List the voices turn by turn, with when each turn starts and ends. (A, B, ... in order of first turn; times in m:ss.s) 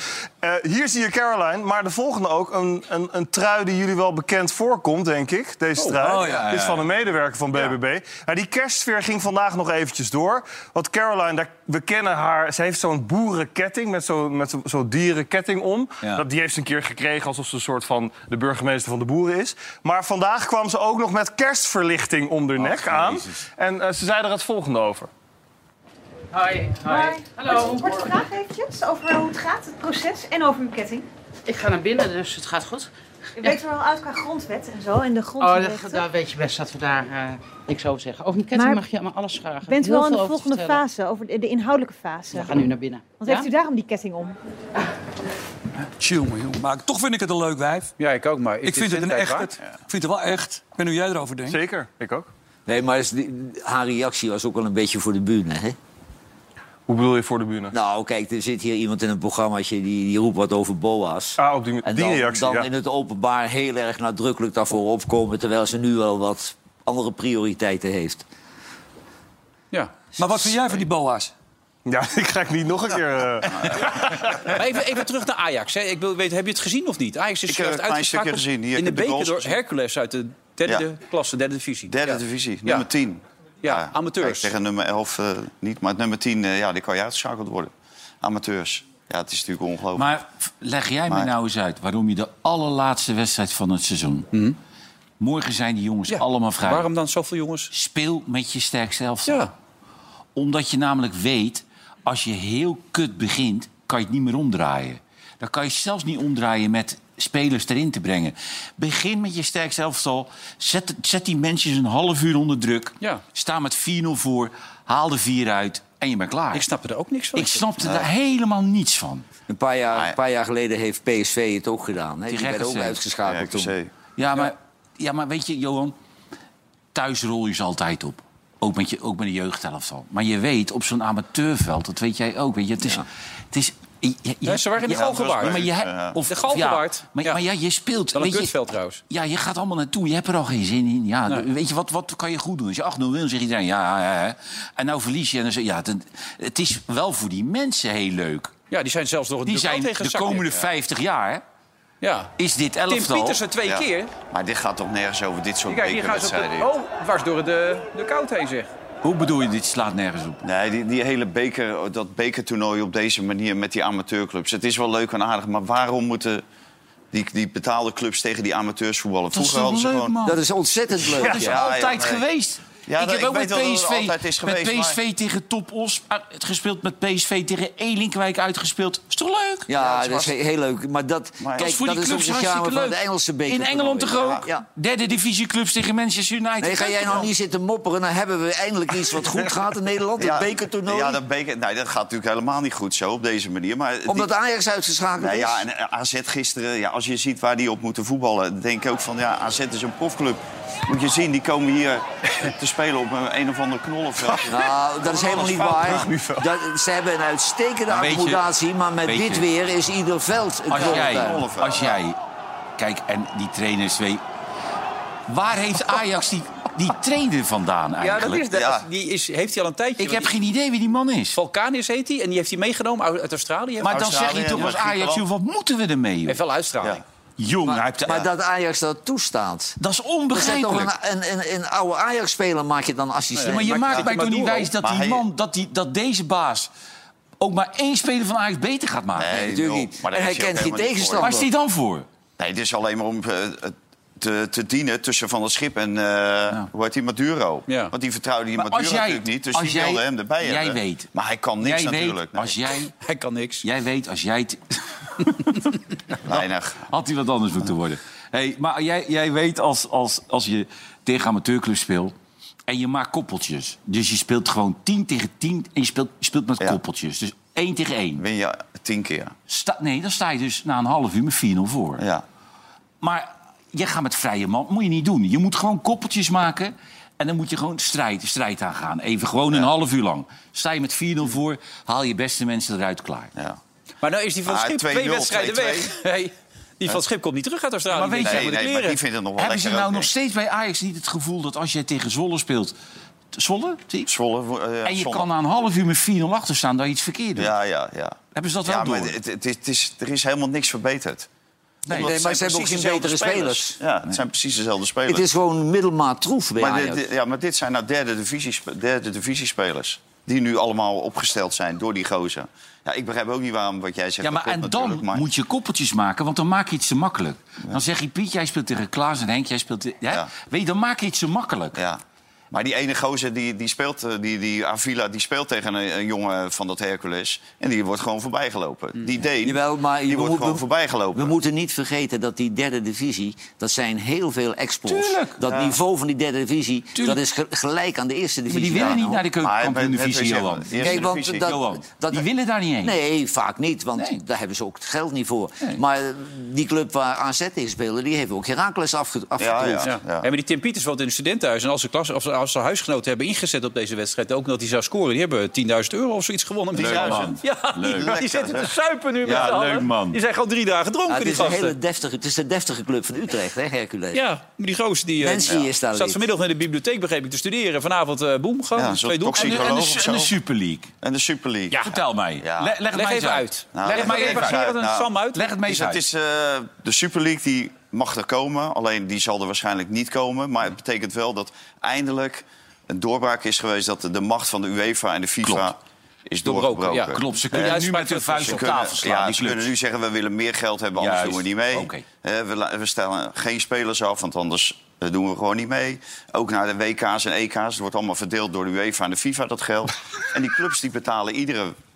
0:00.4-0:25.1 A
0:06.0-0:06.5 B
0:06.2-0:06.8 C
0:22.6-0:23.4 C
0:26.3-0:28.3 D
0:26.9-0:31.1 E
0:31.5-0:32.9 D
0:33.4-0:36.0 E
0:35.4-0:40.8 D
0:38.5-0:38.8 E
0:39.7-0:42.5 E
0:42.3-0:43.4 D
0:43.2-0:44.4 E
0:46.0-0:47.9 B
0:48.0-0:49.5 F
0:48.6-0:51.6 B
0:51.5-0:52.3 A
0:52.7-0:55.8 G
0:56.9-0:57.8 A
0:57.7-1:08.3 G
1:01.4-1:02.7 A
1:10.2-1:11.3 B
1:11.9-1:14.5 A
1:14.5-1:22.8 F
1:17.5-1:19.6 H
1:21.9-1:30.1 H
1:23.6-1:24.5 F
1:30.0-1:34.3 C
1:34.3-1:34.6 F
1:35.2-1:36.9 C
1:36.1-1:37.7 F
1:37.7-1:39.5 C
1:40.4-1:56.6 C
1:56.5-1:57.6 F
1:57.4-1:59.3 C
1:57.8-1:58.1 H
1:59.5-2:03.7 G
2:02.3-2:03.0 C
2:03.3-2:03.9 H
2:04.2-2:06.0 C
2:06.9-2:18.6 C
2:14.4-2:15.7 F
2:14.9-2:16.2 H
2:16.3-2:17.4 F
2:18.1-2:19.0 F
2:19.1-2:28.5 C
2:28.7-2:30.7 F
2:29.5-2:31.4 C
2:32.0-2:32.3 F
2:32.4-2:33.4 C
2:32.9-2:34.1 F
2:33.7-2:36.7 H
2:35.7-2:38.7 F
2:39.0-2:40.4 C
2:40.4-2:46.4 H
2:47.1-2:50.2 H
2:49.3-2:50.4 C
2:50.2-2:51.6 G
2:51.0-3:00.2 C
2:51.2-2:52.2 H
2:52.9-2:55.0 H
2:59.7-3:04.6 G
3:01.4-3:01.7 H
3:01.6-3:07.3 C
3:06.6-3:11.2 G
3:10.2-3:14.3 H
3:14.1-3:15.6 G
3:15.2-3:24.7 H
3:24.4-3:31.5 G
3:25.2-3:26.1 H
3:25.3-3:26.4 A
3:27.9-3:28.5 C
3:29.0-3:29.5 C
3:30.7-3:32.2 C
3:30.8-3:32.0 H
3:32.8-3:34.2 C
3:35.3-3:38.4 C
3:38.0-3:40.3 F
3:38.5-3:38.8 H
3:40.0-3:41.4 C
3:41.4-3:44.0 F
3:43.8-3:46.4 C
3:43.8-3:45.2 H
3:46.3-3:47.0 F
3:47.4-3:48.3 C
3:47.7-3:49.8 G
3:49.8-3:50.9 C
3:50.3-3:54.0 G
3:53.4-3:54.7 F
3:53.5-3:56.7 C
3:54.8-3:55.2 H
3:57.4-3:59.4 C
3:59.2-4:01.4 H
3:59.3-4:01.5 G
4:01.2-4:02.1 C
4:02.4-4:12.6 H
4:07.7-4:07.9 F
4:08.6-4:11.1 C
4:11.6-4:12.9 C
4:13.0-4:13.6 F
4:13.6-4:15.5 C
4:16.2-4:16.8 H
4:16.3-4:22.1 C
4:22.7-4:28.2 C
4:28.2-4:29.4 H
4:29.5-4:32.0 C
4:32.0-4:32.2 H
4:33.0-4:43.3 C
4:44.0-4:49.0 F
4:44.5-4:45.9 H
4:47.9-4:48.6 C
4:48.2-4:50.1 H
4:49.4-4:52.7 C
4:53.3-4:54.1 C
4:54.1-4:55.3 H
4:54.8-4:57.5 C
4:57.4-5:01.3 H
4:58.3-4:59.2 C
5:01.9-5:02.2 C
5:01.9-5:05.2 H
5:01.9-5:03.8 G
5:05.1-5:07.1 G
5:06.6-5:15.3 H
5:14.2-5:21.8 C
5:21.8-5:22.0 H
5:22.5-5:31.3 H
5:29.4-5:39.2 G
5:34.9-5:35.4 C
5:35.5-5:35.8 H
5:38.5-5:43.0 C
5:38.8-5:41.5 H
5:40.8-5:42.3 G
5:42.8-5:49.9 G
5:49.4-5:50.3 H
5:49.8-6:01.8 F
5:56.7-5:58.7 H
5:56.8-5:58.2 C
5:59.2-5:59.6 H
5:59.2-6:00.2 C
6:01.1-6:04.2 G
6:04.1-6:09.6 F
6:05.2-6:06.2 G
6:08.8-6:10.3 H
6:09.3-6:10.9 C
6:11.0-6:11.9 H
6:11.8-6:14.6 C
6:12.4-6:12.7 H
6:12.9-6:15.5 F
6:13.7-6:15.1 H
6:15.4-6:16.0 C
6:15.6-6:27.8 H
6:25.4-6:25.7 C
6:26.4-6:28.7 F
6:27.2-6:29.7 C
6:28.4-6:41.8 H
6:31.0-6:32.0 C